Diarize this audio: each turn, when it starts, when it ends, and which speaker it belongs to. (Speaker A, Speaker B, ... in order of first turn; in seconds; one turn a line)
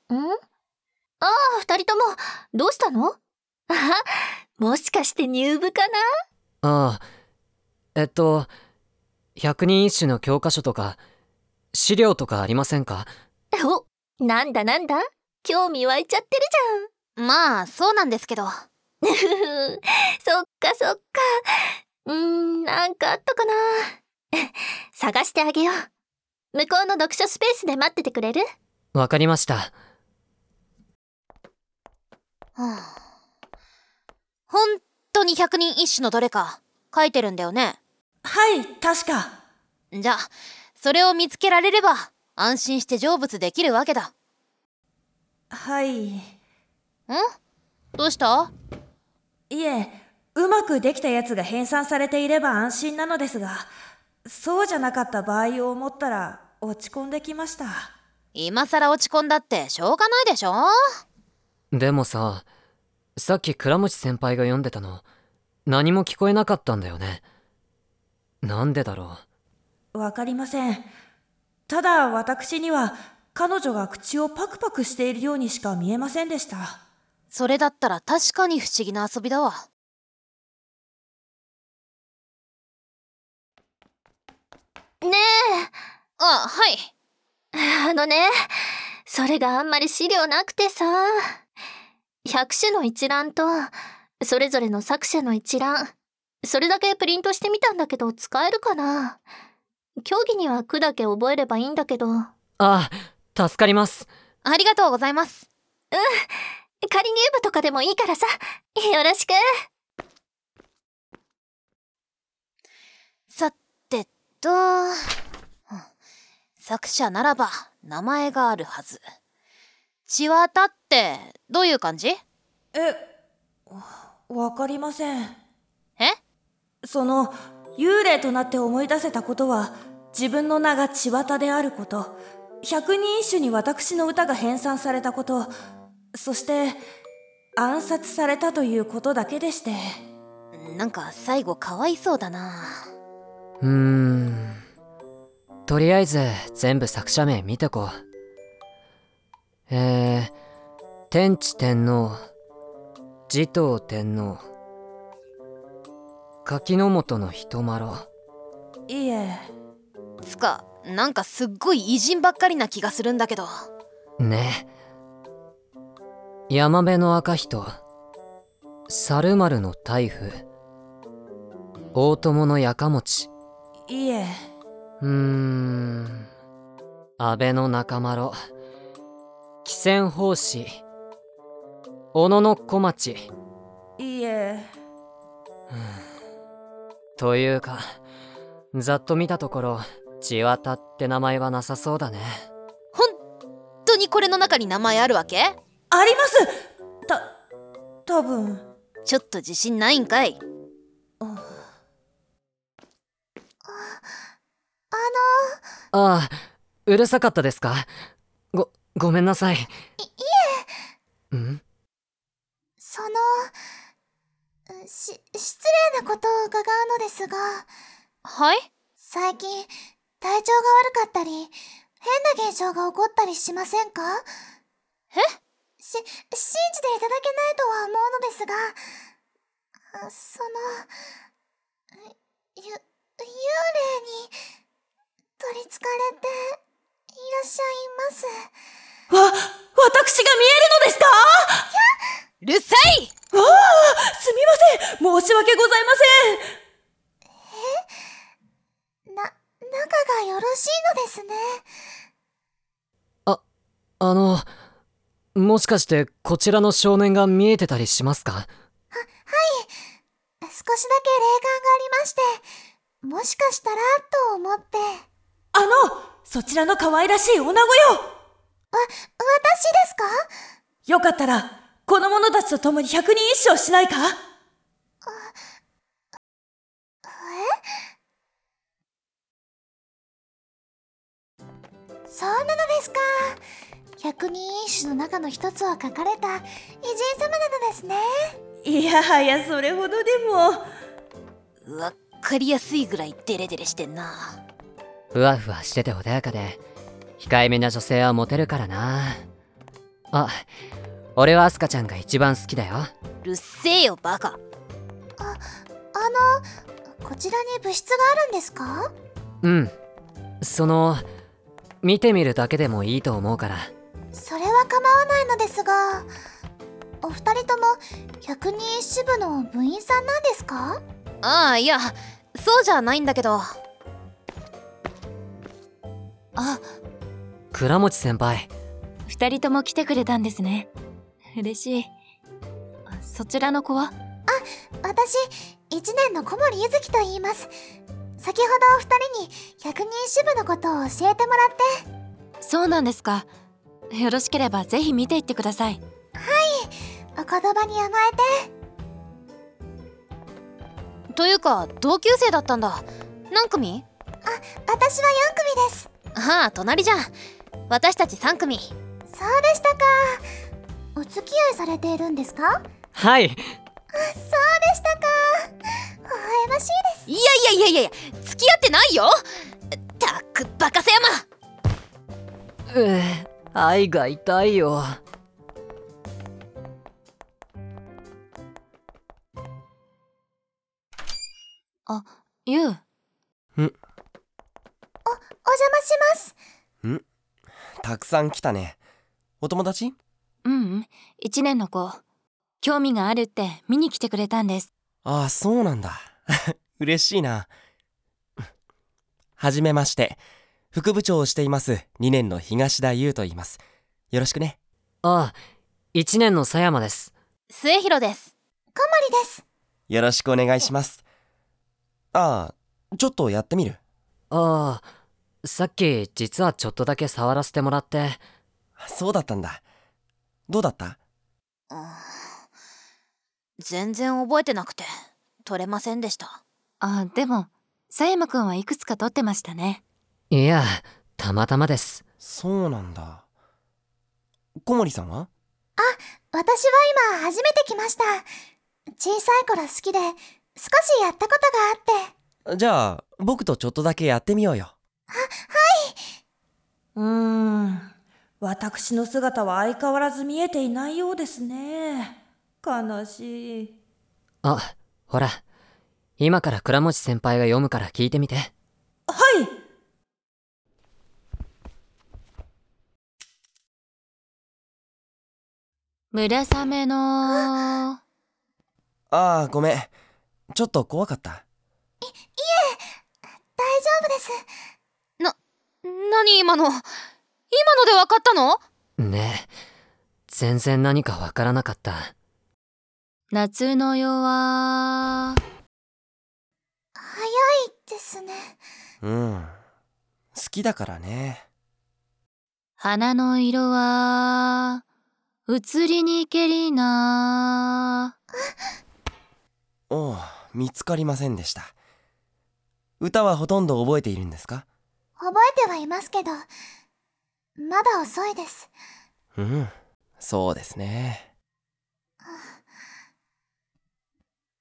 Speaker A: 1.2-3.2
Speaker A: 3.7-4.0
Speaker A: 4.6-6.0
Speaker B: 6.6-7.0
Speaker B: 8.0-8.5
Speaker B: 9.4-11.0
Speaker B: 11.7-13.1
Speaker A: 13.6-16.9
Speaker C: 17.2-18.5
Speaker A: 19.0-25.8
Speaker A: 26.5-28.4
Speaker B: 28.9-29.7
Speaker C: 32.6-32.9
Speaker C: 34.5-37.8
Speaker D: 38.2-39.4
Speaker C: 39.9-44.1
Speaker D: 45.5-46.2
Speaker C: 48.0-48.5
Speaker D: 49.5-53.7
Speaker D: 54.3-57.9
Speaker C: 58.4-60.7
Speaker B: 61.7-62.4
Speaker B: 63.2-65.0
Speaker B: 65.7-67.2
Speaker B: 68.4-69.2
Speaker D: 69.9-70.9
Speaker D: 71.7-76.8
Speaker C: 77.3-79.6
Speaker A: 85.0-85.7
Speaker C: 86.2-86.9
Speaker A: 87.6-88.3
Speaker A: 89.1-91.2
Speaker A: 92.2-95.9
Speaker A: 96.4-99.2
Speaker A: 100.0-102.3
Speaker B: 102.6-104.1
Speaker C: 104.4-105.5
Speaker A: 105.9-106.3
Speaker A: 106.9-109.4
Speaker C: 113.3-115.0
Speaker C: 116.6-119.0
Speaker C: 120.1-122.2
Speaker D: 122.7-123.0
Speaker D: 123.7-125.3
Speaker D: 126.8-135.5
Speaker D: 136.1-136.8
Speaker D: 137.6-140.0
Speaker C: 140.5-142.8
Speaker B: 143.6-144.6
Speaker B: 145.7-148.0
Speaker B: 149.7-150.3
Speaker B: 151.1-152.2
Speaker B: 153.3-154.4
Speaker B: 156.4-158.1
Speaker D: 158.9-159.5
Speaker C: 160.2-163.5
Speaker B: 164.2-164.7
Speaker B: 166.5-167.8
Speaker B: 168.9-170.4
Speaker B: 171.9-173.3
Speaker D: 173.9-174.3
Speaker B: 175.0-176.3
Speaker B: 177.2-178.3
Speaker B: 179.7-180.8
Speaker B: 182.1-183.3
Speaker D: 184.0-184.7
Speaker B: 185.7-186.0
Speaker B: 187.2-187.8
Speaker B: 188.7-192.4
Speaker C: 193.9-195.6
Speaker D: 195.9-196.5
Speaker D: 197.1-197.3
Speaker D: 198.1-198.7
Speaker C: 199.1-200.4
Speaker D: 201.2-201.6
Speaker E: 203.7-204.0
Speaker E: 204.9-205.6
Speaker B: 205.9-207.9
Speaker B: 208.5-209.7
Speaker E: 210.0-210.7
Speaker B: 211.3-211.6
Speaker E: 212.8-213.5
Speaker E: 214.7-217.7
Speaker C: 218.2-218.7
Speaker E: 219.0-224.2
Speaker E: 225.8-228.8
Speaker E: 229.9-230.9
Speaker E: 232.1-234.3
Speaker E: 235.4-236.6
Speaker E: 237.2-238.5
Speaker D: 239.1-241.7
Speaker C: 242.4-243.1
Speaker D: 243.3-246.4
Speaker E: 247.5-247.8
Speaker E: 249.1-251.6
Speaker B: 254.0-254.5
Speaker B: 255.3-258.5
Speaker E: 258.9-259.7
Speaker E: 260.4-262.4
Speaker E: 263.0-265.0
Speaker D: 265.5-268.1
Speaker E: 268.7-270.1
Speaker D: 270.9-274.2
Speaker E: 275.0-275.3
Speaker E: 277.1-277.5
Speaker E: 282.1-283.4
Speaker E: 284.0-288.1
Speaker D: 288.6-290.6
Speaker C: 291.6-294.4
Speaker B: 295.1-296.6
Speaker B: 297.2-299.2
Speaker B: 300.1-300.4
Speaker B: 301.2-302.9
Speaker C: 303.2-304.4
Speaker E: 305.9-306.4
Speaker E: 307.0-308.9
Speaker B: 309.4-309.7
Speaker B: 310.4-311.1
Speaker B: 311.8-313.7
Speaker E: 314.1-316.1
Speaker E: 317.0-320.8
Speaker C: 321.2-323.5
Speaker F: 326.4-326.6
Speaker B: 327.5-328.5
Speaker F: 329.1-330.7
Speaker F: 331.4-331.9
Speaker F: 332.9-333.9
Speaker E: 334.3-337.5
Speaker E: 338.2-341.7
Speaker F: 342.4-343.3
Speaker F: 344.0-345.8
Speaker E: 346.2-348.5
Speaker C: 351.1-353.9
Speaker E: 354.2-355.9
Speaker C: 356.1-357.1
Speaker C: 357.7-358.7
Speaker E: 359.1-360.2
Speaker E: 361.0-362.6
Speaker B: 362.9-363.4
Speaker E: 364.0-365.5
Speaker E: 366.1-367.1
Speaker C: 367.1-369.2
Speaker C: 370.0-371.2
Speaker B: 372.7-375.0
Speaker F: 381.9-382.8
Speaker E: 385.1-386.4
Speaker G: 387.8-388.8
Speaker G: 389.4-390.0
Speaker F: 390.5-391.9
Speaker F: 392.6-394.7
Speaker G: 395.1-397.5
Speaker G: 399.4-400.2
Speaker G: 400.7-403.6
Speaker G: 404.1-404.6
Speaker B: 405.0-405.4
Speaker B: 405.9-407.1
Speaker C: 407.5-408.3
Speaker E: 408.8-409.4
Speaker G: 409.9-411.0
Speaker G: 412.1-413.8
Speaker B: 414.3-414.8
Speaker B: 415.4-418.2
Speaker G: 418.8-419.6
Speaker G: 420.5-421.0
Speaker C: 421.7-422.1
Speaker C: 423.6-424.9
Speaker C: 425.4-426.4
Speaker F: 426.8-429.8
Speaker B: 430.3-432.0
Speaker G: 432.2-433.2
Speaker G: 434.6-435.3
Speaker E: 435.8-438.3
Speaker E: 439.0-442.1
Speaker G: 442.5-444.7
Speaker E: 445.1-446.0
Speaker D: 447.0-447.9
Speaker D: 448.4-453.8
Speaker B: 454.4-455.4
Speaker B: 456.2-458.5
Speaker D: 459.1-459.5
Speaker F: 466.2-467.7
Speaker G: 469.1-469.9
Speaker G: 470.5-471.4
Speaker E: 472.0-472.8
Speaker E: 473.6-474.4
Speaker C: 475.2-476.8
Speaker C: 477.5-478.6
Speaker B: 479.0-479.5
Speaker B: 480.3-482.1
Speaker F: 483.3-484.9
Speaker E: 487.0-488.6
Speaker G: 489.0-489.6
Speaker G: 490.3-491.4
Speaker F: 492.9-494.2
Speaker F: 495.5-497.0
Speaker G: 499.9-501.7
Speaker G: 503.0-504.7
Speaker E: 505.2-506.5
Speaker E: 507.6-508.7
Speaker G: 509.4-511.3